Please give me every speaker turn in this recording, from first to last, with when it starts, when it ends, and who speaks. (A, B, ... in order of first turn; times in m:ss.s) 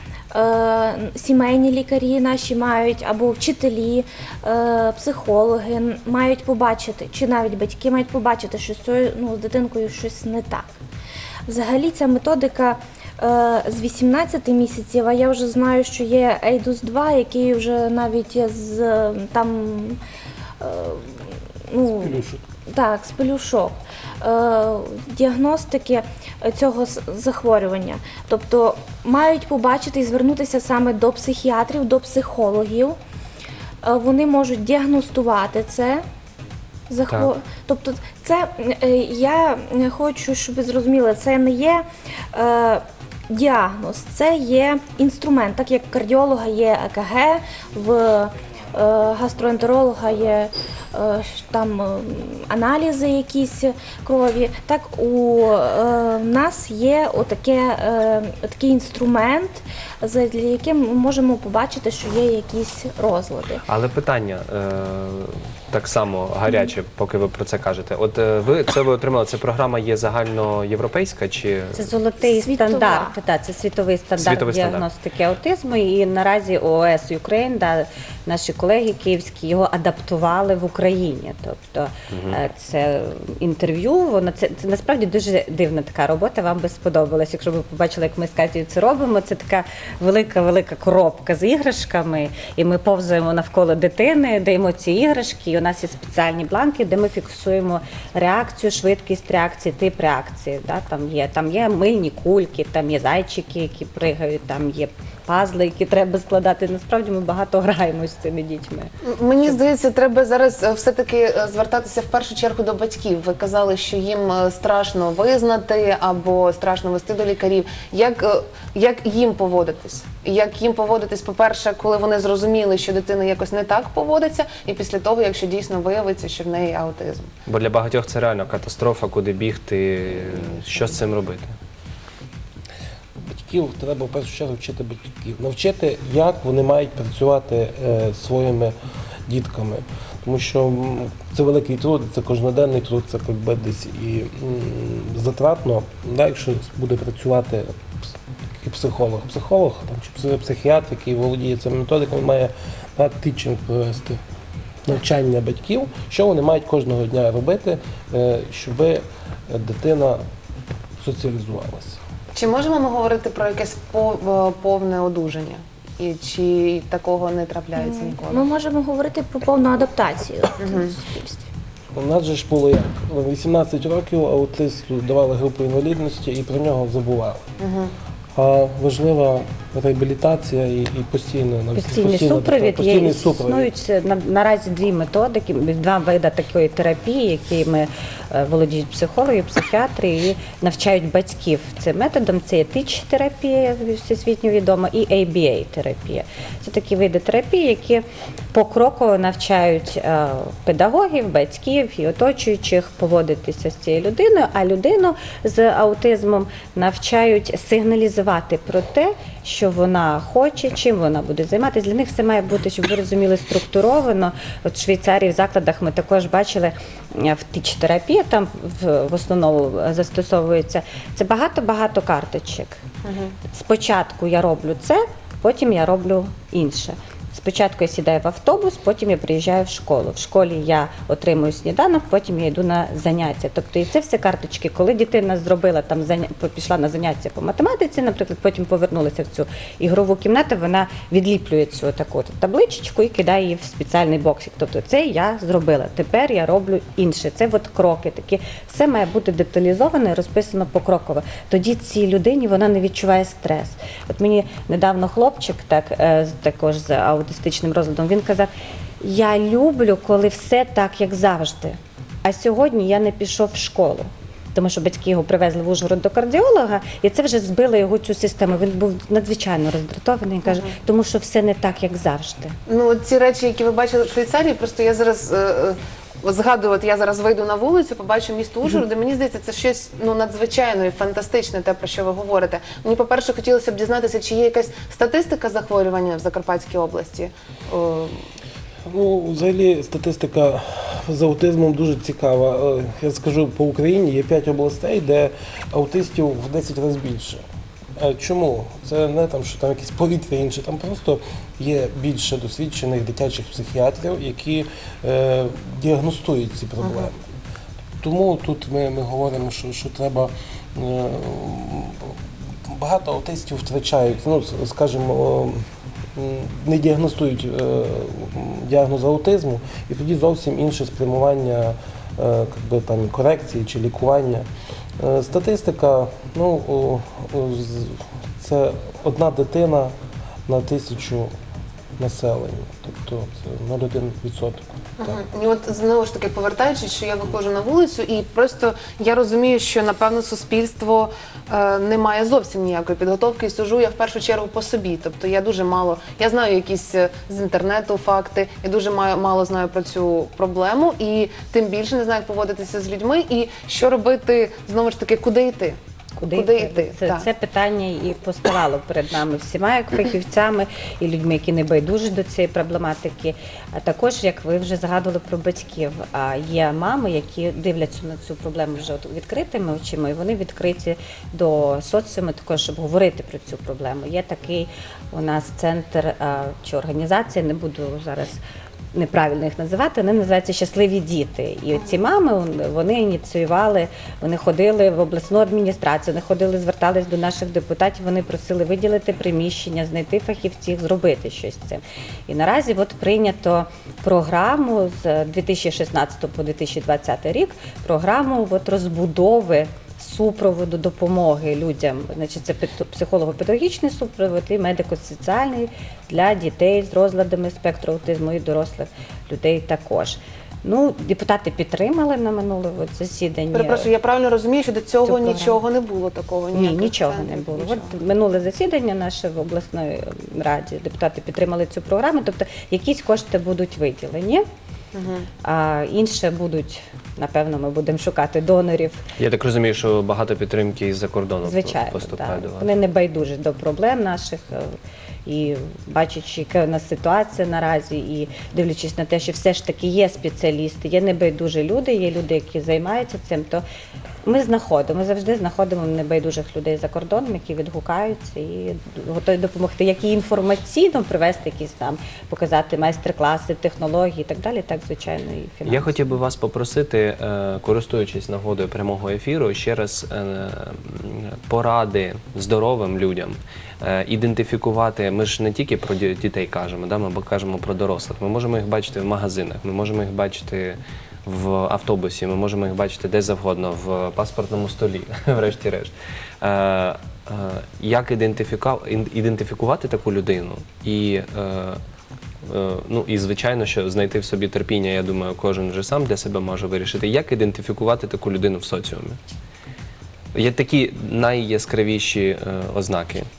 0:00.3-0:10.7 A
0:11.5-0:20.0 A
0:20.6-0:33.0 A
0:22.0-0:22.4 B
0:33.8-0:36.0 A
0:36.9-1:03.6 A
1:03.6-1:11.9 C
1:11.7-1:48.9 D
1:12.2-1:13.1 A
1:14.2-1:14.9 C
1:22.1-1:22.4 C
1:49.0-2:07.3 E
2:07.5-2:11.6 C
2:13.2-2:18.7 B
2:19.3-2:34.2 B
2:34.8-2:40.2 B
2:41.0-2:42.0 B
2:42.3-2:48.4 E
2:47.8-2:51.5 A
2:50.6-2:50.9 E
2:51.9-2:57.5 B
2:57.6-2:57.9 E
2:58.3-3:03.7 B
3:01.7-3:42.8 D
3:43.0-3:43.3 E
3:43.5-4:32.6 D
4:30.4-4:30.7 E
4:32.7-4:48.2 E
4:48.8-4:57.4 B
4:58.0-5:07.2 B
5:06.8-5:07.1 E
5:08.0-5:24.4 B
5:25.0-5:29.9 B
5:30.5-5:31.3 B
5:32.0-5:35.1 B
5:35.0-5:57.2 E
5:56.2-6:18.4 D
6:18.9-6:53.9 D
6:53.5-6:57.9 E
6:55.0-6:55.6 D
6:56.5-7:04.4 D
7:04.9-7:05.3 E
7:05.4-7:09.0 D
7:09.2-7:12.7 C
7:11.4-7:23.6 D
7:24.2-7:36.0 D
7:35.7-8:01.8 C
8:02.4-8:09.2 C
8:10.3-8:13.3 C